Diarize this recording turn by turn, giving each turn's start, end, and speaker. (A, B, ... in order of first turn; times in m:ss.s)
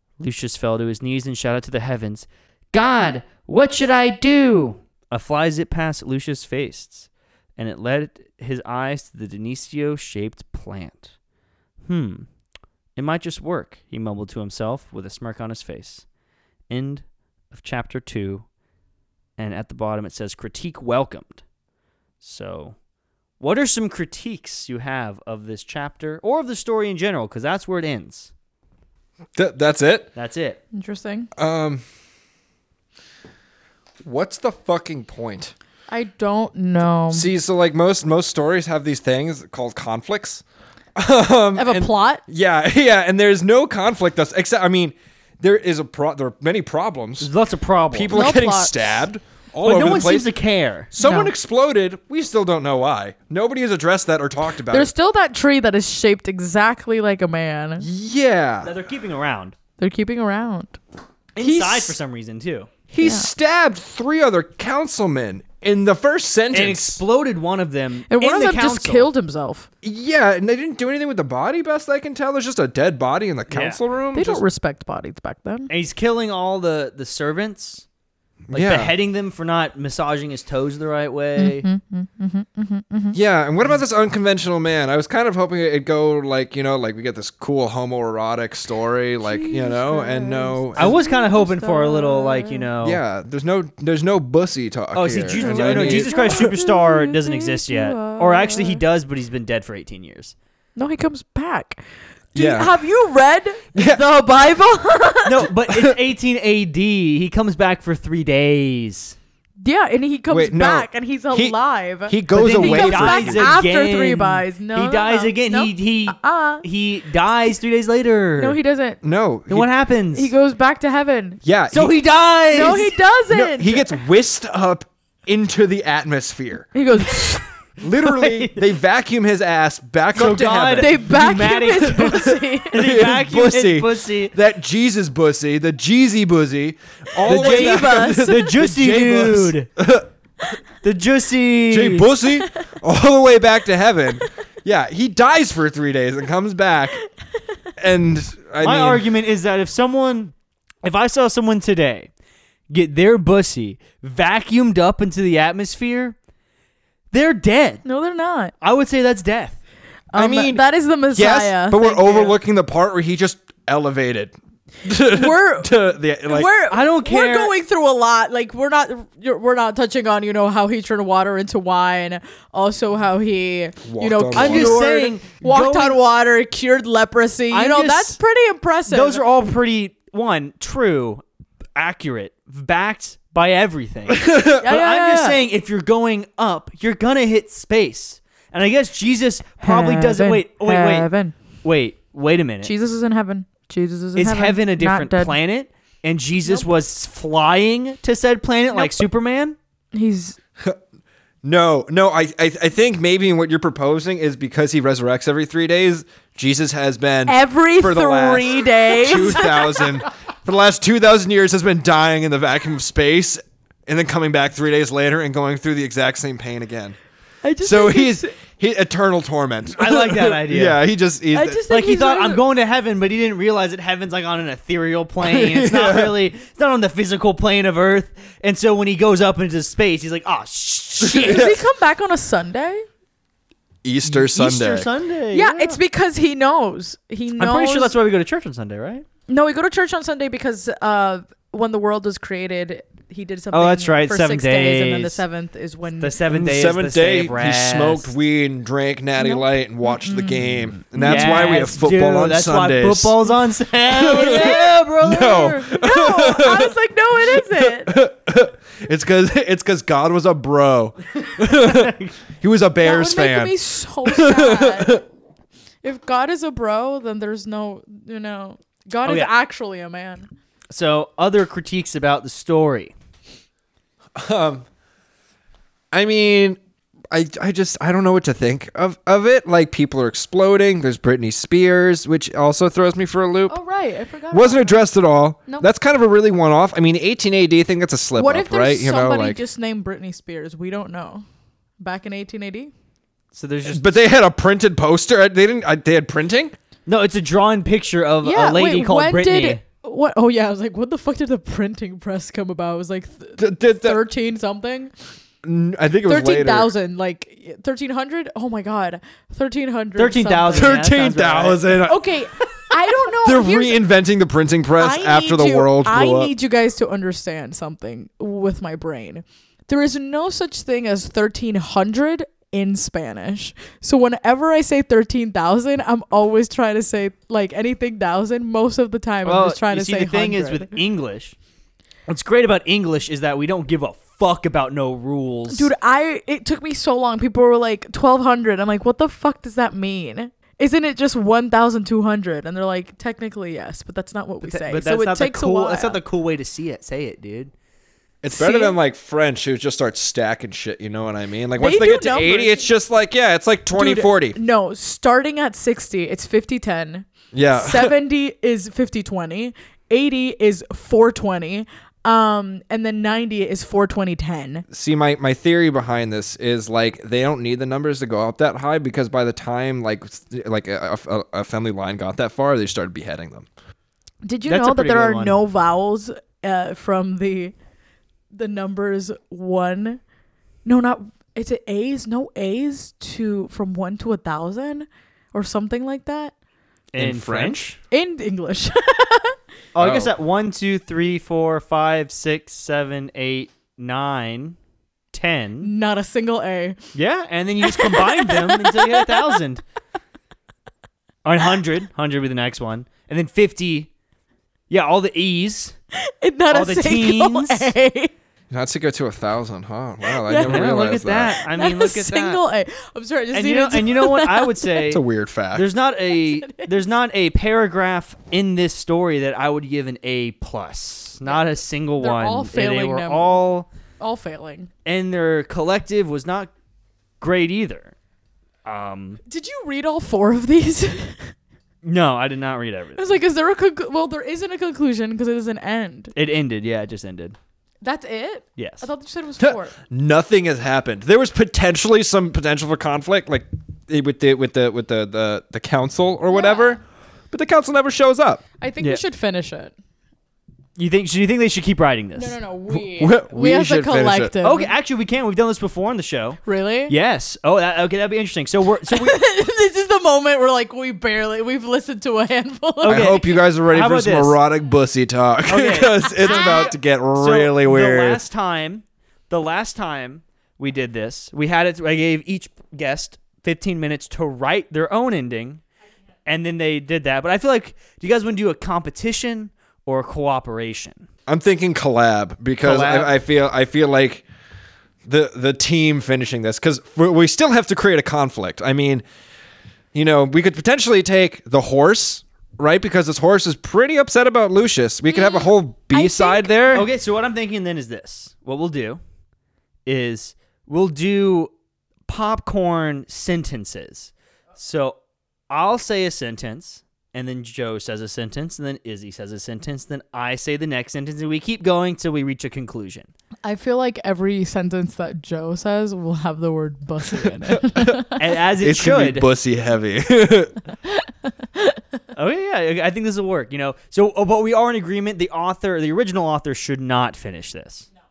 0:00.2-0:11.1 A
0:11.8-0:12.3 A
0:13.0-0:16.1 A
0:16.7-0:18.4 A
0:19.4-0:21.4 A
0:22.2-0:22.8 A
0:23.4-0:28.3 A
0:29.4-0:30.1 B
0:30.2-0:30.6 A
0:30.7-0:31.3 C
0:31.4-0:31.8 B
0:34.0-0:35.5 B
0:35.9-0:37.3 C
0:37.1-0:40.4 B
0:41.0-0:47.3 B
0:41.6-0:42.2 C
0:47.2-0:48.2 A
0:47.9-0:50.3 B
0:48.1-0:49.0 C
0:49.6-0:50.9 A
0:50.9-0:54.9 B
0:51.0-0:51.3 C
0:54.6-0:57.9 C
0:57.8-0:58.7 B
0:58.6-0:59.6 A
0:59.8-1:00.8 C
1:01.4-1:02.7 A
1:01.4-1:02.0 C
1:02.9-1:07.0 B
1:03.0-1:03.3 C
1:06.5-1:09.1 A
1:08.1-1:09.7 C
1:09.8-1:14.4 B
1:13.5-1:13.8 A
1:14.1-1:15.7 C
1:15.7-1:17.8 A
1:18.5-1:18.9 B
1:18.5-1:21.6 A
1:21.4-1:23.2 C
1:23.1-1:31.0 B
1:29.2-1:32.7 C
1:30.8-1:33.0 A
1:32.8-1:36.5 B
1:34.9-1:40.4 A
1:35.4-1:38.8 C
1:40.8-1:41.8 C
1:42.3-1:45.5 C
1:42.4-1:42.7 B
1:43.7-1:44.0 B
1:45.2-1:49.2 A
1:45.6-1:46.0 B
1:49.6-1:56.6 C
1:50.3-1:51.6 B
1:52.1-1:53.6 B
1:52.3-1:58.6 A
1:58.4-1:59.0 C
1:59.0-1:59.7 B
1:59.5-2:00.3 A
2:00.1-2:01.4 C
2:01.4-2:02.0 B
2:01.7-2:02.9 A
2:02.5-2:03.9 C
2:03.3-2:06.7 B
2:06.7-2:07.4 C
2:07.8-2:11.1 B
2:08.0-2:08.6 A
2:10.2-2:14.4 A
2:10.7-2:12.9 C
2:12.0-2:20.1 B
2:17.2-2:18.5 C
2:17.2-2:19.7 A
2:20.8-2:22.1 A
2:21.7-2:27.0 B
2:27.8-2:29.0 B
2:28.6-2:32.1 A
2:32.7-2:36.2 A
2:37.1-2:37.8 A
2:37.8-2:38.5 C
2:38.6-2:39.6 A
2:40.1-2:42.4 C
2:40.2-2:40.6 B
2:41.1-2:46.5 B
2:44.9-2:59.2 C
2:46.7-2:47.5 A
2:53.8-2:54.9 B
2:54.3-2:56.0 A
2:57.5-2:58.2 A
2:58.9-3:01.2 A
3:01.8-3:11.1 A
3:04.1-3:04.6 B
3:04.6-3:05.4 C
3:09.6-3:11.4 C
3:11.6-3:12.7 A
3:12.6-3:15.4 C
3:14.2-3:19.6 A
3:18.7-3:19.0 C
3:19.9-3:20.4 C
3:21.4-3:37.0 B
3:27.3-3:30.0 C
3:37.4-3:38.4 C
3:37.6-3:41.6 B
3:39.8-3:40.8 A
3:41.3-3:42.4 C
3:41.7-3:51.6 A
3:45.2-3:46.2 B
3:51.0-3:51.6 B
3:51.0-3:52.8 C
3:53.8-3:54.9 B
3:54.0-3:55.8 A
3:55.3-3:57.9 C
3:57.4-3:59.0 A
3:59.3-4:06.2 C
4:03.5-4:05.2 A
4:06.0-4:08.1 A
4:06.3-4:13.2 B
4:09.2-4:11.7 C
4:11.0-4:15.6 A
4:13.9-4:25.0 B
4:14.0-4:18.0 C
4:21.4-4:22.2 A
4:22.8-4:25.0 C
4:25.8-4:30.3 C
4:29.0-4:29.3 A
4:30.7-4:32.9 A
4:34.2-4:34.6 B
4:35.9-4:36.6 B
4:37.1-4:43.6 B
4:43.5-4:44.8 C
4:44.3-4:49.4 B
4:48.2-4:51.2 C
4:51.8-4:52.7 C
4:53.3-4:53.9 A
4:53.6-4:56.6 B
4:56.8-4:59.6 A
4:58.2-5:04.9 C
5:03.4-5:04.0 B
5:05.4-5:06.7 B
5:06.1-5:10.8 C
5:10.0-5:11.8 A
5:10.5-5:16.3 B
5:11.8-5:13.9 C
5:14.8-5:30.8 C
5:29.2-5:31.4 A
5:32.1-5:35.7 A
5:35.5-5:46.0 C
5:44.4-5:47.5 A
5:48.2-5:54.4 B
5:48.3-5:48.8 C
5:51.6-5:52.7 C
5:53.7-6:04.6 C
5:57.3-5:57.9 B
6:04.7-6:13.5 B
6:14.2-6:17.5 C
6:14.4-6:15.4 A
6:18.3-6:20.0 C
6:20.6-6:26.3 C
6:26.9-6:27.8 A
6:27.0-6:27.7 B
6:27.9-6:29.4 C
6:29.7-6:34.6 A
6:29.8-6:30.1 B
6:35.1-6:35.7 A
6:35.6-6:36.9 C
6:36.9-6:39.6 A
6:37.6-6:39.4 C
6:41.2-6:43.9 A
6:44.7-6:45.8 A
6:46.1-6:48.1 C
6:46.5-6:47.7 A
6:48.5-6:51.4 B
6:50.1-6:54.9 C
6:50.4-6:52.4 A
6:53.3-6:55.0 A
6:54.9-6:55.7 B
6:55.5-7:03.7 A
6:56.1-6:56.8 C
7:01.2-7:03.4 C
7:04.0-7:04.7 C
7:04.8-7:06.5 A
7:07.2-7:07.9 A
7:08.6-7:09.2 A
7:09.3-7:11.3 C
7:11.8-7:13.1 A
7:13.0-7:16.1 C
7:16.1-7:17.4 A
7:17.8-7:19.8 C
7:18.6-7:18.9 A
7:19.4-7:26.8 B
7:26.3-7:26.8 C
7:27.3-7:28.4 B
7:28.6-7:29.7 C
7:30.8-7:32.4 A
7:32.2-7:34.7 C
7:32.7-7:34.3 B
7:34.4-7:39.2 A
7:36.4-7:36.9 C
7:38.9-7:43.4 C
7:42.8-7:44.4 A
7:42.8-7:48.2 B
7:45.5-7:55.6 A
7:46.1-7:46.8 C
7:56.3-8:01.1 A
8:01.3-8:04.2 B
8:02.6-8:03.1 A
8:05.1-8:09.0 B
8:09.9-8:16.9 B
8:15.1-8:16.6 C
8:16.7-8:19.0 A
8:19.8-8:21.5 A
8:22.1-8:25.0 A
8:25.5-8:33.1 A
8:33.4-8:38.3 C
8:37.0-8:38.0 B
8:38.2-8:39.3 A
8:38.6-8:40.6 B
8:40.8-8:41.8 C
8:42.2-8:47.9 A